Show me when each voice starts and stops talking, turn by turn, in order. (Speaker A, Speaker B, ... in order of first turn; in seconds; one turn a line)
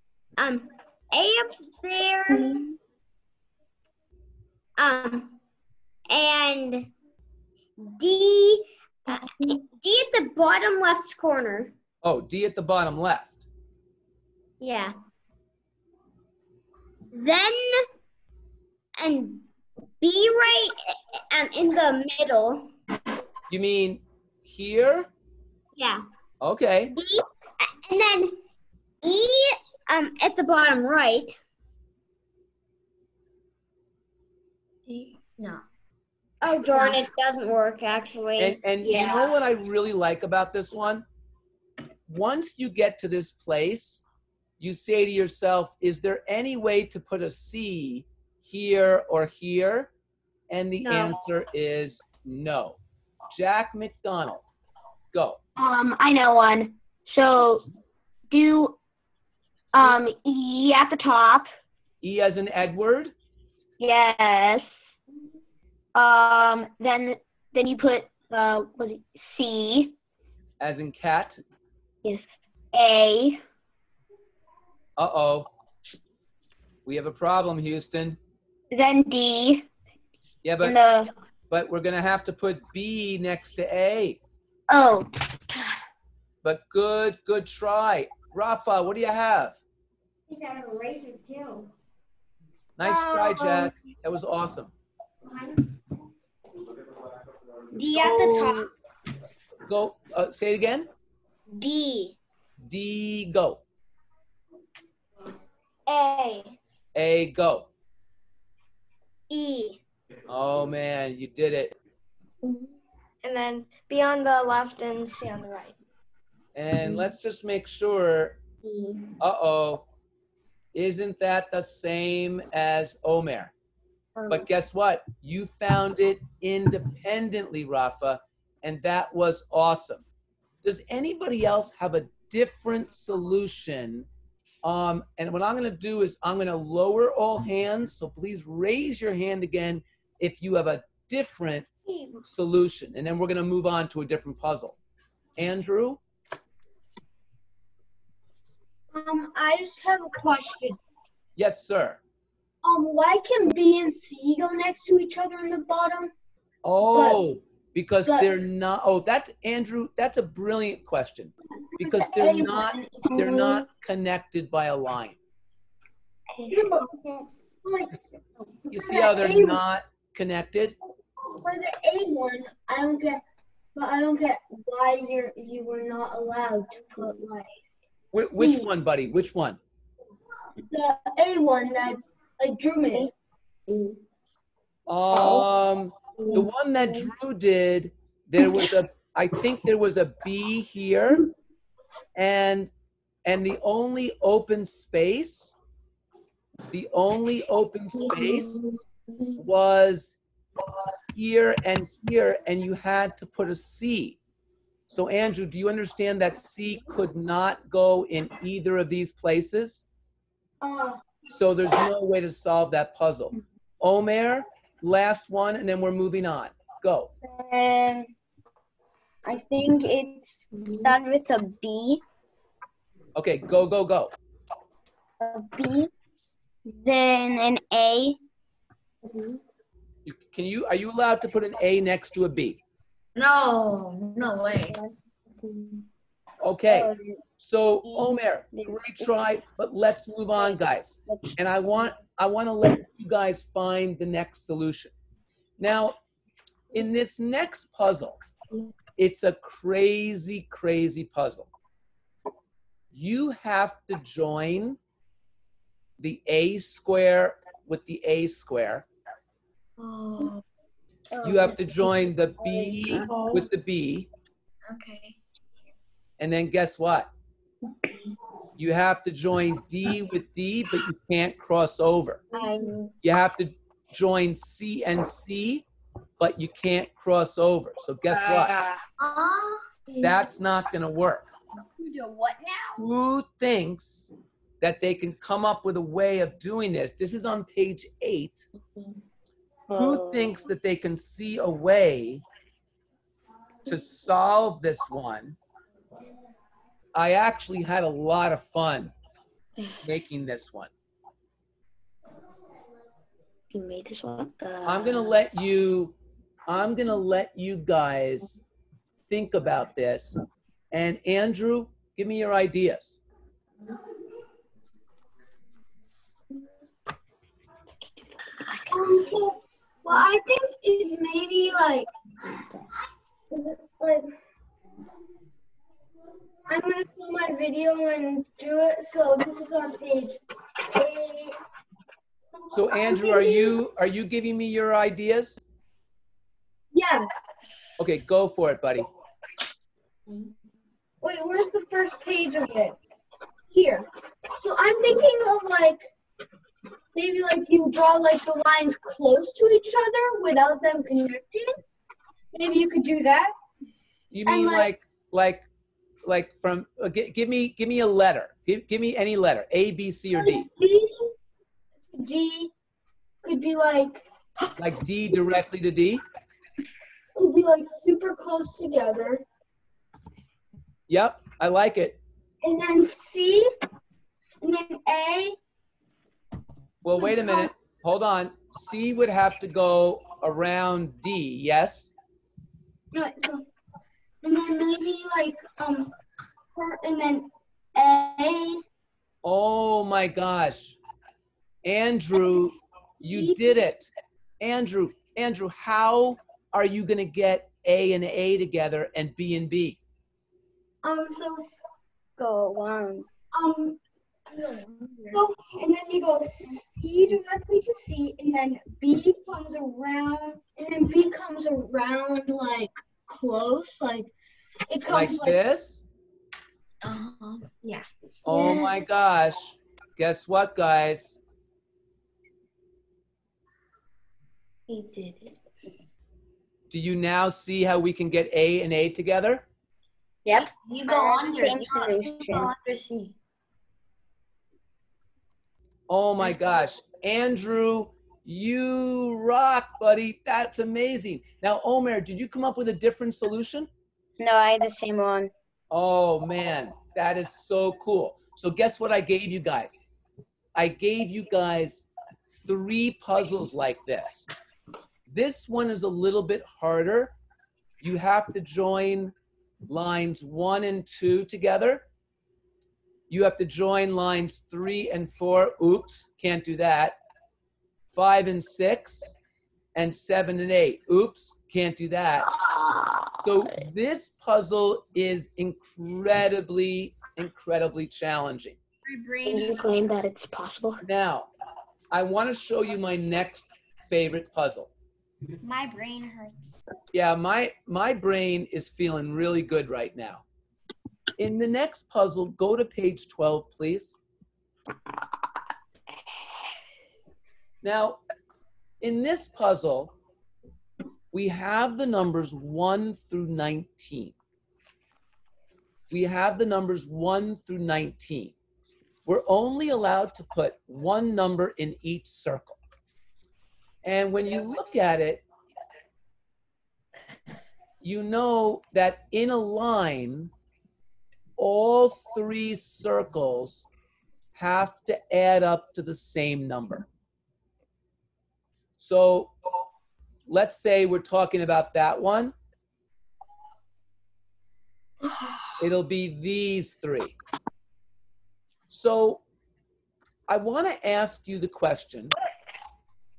Speaker A: 0.4-2.6
Speaker A: 4.8-5.4
Speaker A: 6.1-6.9
Speaker A: 7.8-11.8
Speaker B: 12.0-13.4
Speaker A: 14.6-14.9
Speaker A: 17.1-17.9
Speaker A: 19.0-19.5
Speaker A: 20.0-22.7
Speaker B: 23.5-25.1
Speaker A: 25.8-26.1
Speaker B: 26.4-27.0
Speaker A: 26.9-28.4
Speaker A: 29.0-31.4
Speaker C: 34.9-35.6
Speaker A: 36.4-38.6
Speaker B: 38.4-41.1
Speaker D: 38.8-39.3
Speaker B: 42.1-44.0
Speaker B: 44.6-49.9
Speaker B: 50.5-52.8
Speaker A: 50.9-51.1
Speaker B: 53.3-54.5
Speaker B: 55.1-55.4
Speaker D: 55.6-57.6
Speaker D: 58.3-58.8
Speaker D: 59.7-61.5
Speaker B: 62.0-63.1
Speaker D: 63.8-64.7
Speaker D: 66.0-70.0
Speaker B: 70.6-71.4
Speaker D: 72.0-73.4
Speaker B: 75.0-75.5
Speaker B: 76.9-78.2
Speaker D: 78.7-79.6
Speaker B: 80.4-80.8
Speaker D: 80.6-81.1
Speaker B: 81.5-84.2
Speaker D: 84.7-85.7
Speaker B: 86.4-89.6
Speaker B: 92.8-94.7
Speaker E: 92.8-93.7
Speaker E: 97.7-98.7
Speaker B: 97.9-98.7
Speaker B: 99.7-100.9
Speaker E: 101.6-102.2
Speaker B: 102.7-103.6
Speaker E: 105.9-106.5
Speaker B: 107.0-107.7
Speaker E: 109.3-109.8
Speaker B: 110.3-111.8
Speaker E: 113.2-115.8
Speaker B: 116.5-118.4
Speaker B: 119.2-119.8
Speaker B: 120.7-123.5
Speaker B: 124.3-130.0
Speaker B: 130.6-134.1
Speaker B: 134.6-141.7
Speaker B: 142.2-144.8
Speaker B: 145.4-146.0
Speaker F: 148.9-150.8
Speaker B: 151.4-152.0
Speaker F: 152.6-156.1
Speaker B: 156.6-165.2
Speaker F: 156.9-157.2
Speaker F: 158.1-158.3
Speaker F: 161.7-163.7
Speaker C: 166.3-166.8
Speaker F: 166.5-168.0
Speaker F: 168.7-169.6
Speaker B: 168.7-170.8
Speaker F: 171.2-173.2
Speaker F: 173.8-177.6
Speaker B: 178.1-179.6
Speaker F: 178.3-178.7
Speaker F: 180.6-183.1
Speaker B: 184.9-191.3
Speaker B: 192.2-192.7
Speaker B: 193.2-195.6
Speaker B: 196.7-198.6
Speaker C: 198.0-198.6
Speaker B: 199.4-200.2
Speaker B: 201.1-204.2
Speaker B: 204.9-209.8
Speaker F: 210.6-211.0
Speaker B: 211.3-217.1
Speaker A: 217.2-218.1
Speaker A: 219.2-222.0
Speaker B: 223.2-224.1
Speaker A: 225.2-225.9
Speaker A: 226.7-228.2
Speaker B: 230.1-232.6
Speaker C: 233.2-234.8
Speaker A: 234.4-235.8
Speaker B: 236.4-244.9
Speaker A: 236.7-237.2
Speaker A: 237.8-239.1
Speaker A: 240.4-241.4
Speaker B: 245.6-246.0
Speaker B: 246.7-248.2
Speaker B: 249.0-251.5
Speaker B: 252.9-254.8
Speaker B: 256.0-258.9
Speaker C: 259.8-260.4
Speaker A: 261.2-261.5
Speaker B: 261.2-264.1
Speaker C: 261.3-261.9
Speaker A: 262.4-263.2
Speaker C: 262.8-263.5
Speaker C: 264.7-265.2
Speaker B: 266.2-267.1
Speaker B: 268.6-272.2
Speaker A: 272.3-272.9
Speaker C: 272.4-272.7
Speaker B: 273.0-275.6
Speaker B: 276.2-278.6
Speaker D: 278.1-278.8
Speaker C: 279.0-280.2
Speaker B: 280.0-281.3
Speaker F: 281.8-282.8
Speaker B: 282.8-288.5
Speaker D: 289.7-290.4
Speaker B: 289.7-292.2
Speaker B: 293.7-295.4
Speaker B: 296.9-298.9
Speaker B: 299.8-300.7
Speaker D: 303.5-305.1
Speaker B: 304.6-306.0
Speaker B: 306.5-308.4
Speaker B: 309.1-313.0
Speaker F: 318.7-321.9
Speaker F: 323.3-324.1
Speaker F: 326.5-331.4
Speaker B: 332.5-335.4
Speaker F: 332.6-333.6
Speaker F: 336.7-337.3
Speaker B: 337.8-338.9
Speaker F: 341.0-342.8
Speaker F: 343.5-345.9
Speaker F: 346.9-351.6
Speaker F: 352.3-353.3
Speaker B: 354.1-355.5
Speaker F: 354.3-354.7
Speaker B: 356.1-360.5
Speaker F: 360.1-361.1
Speaker F: 361.9-362.5
Speaker F: 363.2-364.0
Speaker B: 364.6-366.0
Speaker F: 367.2-369.2
Speaker B: 370.9-372.0
Speaker F: 372.4-373.5
Speaker F: 374.4-375.4
Speaker B: 376.8-381.9
Speaker F: 377.0-377.5
Speaker F: 382.9-383.5
Speaker F: 384.2-385.9
Speaker F: 386.6-388.6
Speaker B: 389.2-390.8
Speaker B: 391.6-399.8
Speaker F: 393.0-393.6
Speaker F: 400.8-401.5
Speaker A: 402.2-403.1
Speaker F: 403.3-403.8
Speaker C: 404.5-405.2
Speaker F: 405.1-414.1
Speaker F: 414.7-415.4
Speaker B: 414.9-415.8
Speaker C: 416.8-418.9
Speaker B: 418.3-421.2
Speaker F: 418.3-418.6
Speaker C: 424.7-425.4
Speaker B: 426.7-429.4
Speaker C: 430.6-433.2
Speaker A: 430.9-432.5
Speaker B: 435.9-443.7
Speaker A: 444.2-445.3
Speaker B: 445.7-449.9
Speaker B: 450.6-454.3
Speaker B: 455.1-457.1
Speaker B: 457.8-459.1
Speaker B: 459.7-461.8
Speaker B: 463.1-467.0
Speaker B: 467.9-469.2
Speaker B: 469.8-472.3
Speaker D: 472.4-473.1
Speaker B: 473.2-478.6
Speaker F: 478.9-479.6
Speaker D: 479.2-480.8
Speaker B: 480.8-481.3
Speaker B: 481.9-484.7
Speaker F: 485.5-486.5
Speaker B: 486.9-490.2
Speaker B: 491.2-494.0
Speaker B: 497.6-498.0
Speaker B: 498.8-499.9
Speaker B: 501.1-504.2
Speaker B: 505.9-508.4
Speaker B: 509.1-512.6
Speaker B: 513.8-515.2
Speaker B: 517.8-520.3
Speaker B: 521.4-523.7
Speaker B: 524.4-526.9
Speaker B: 528.8-529.3
Speaker B: 530.3-532.4
Speaker B: 535.6-537.1
Speaker B: 538.7-539.2
Speaker B: 540.3-542.1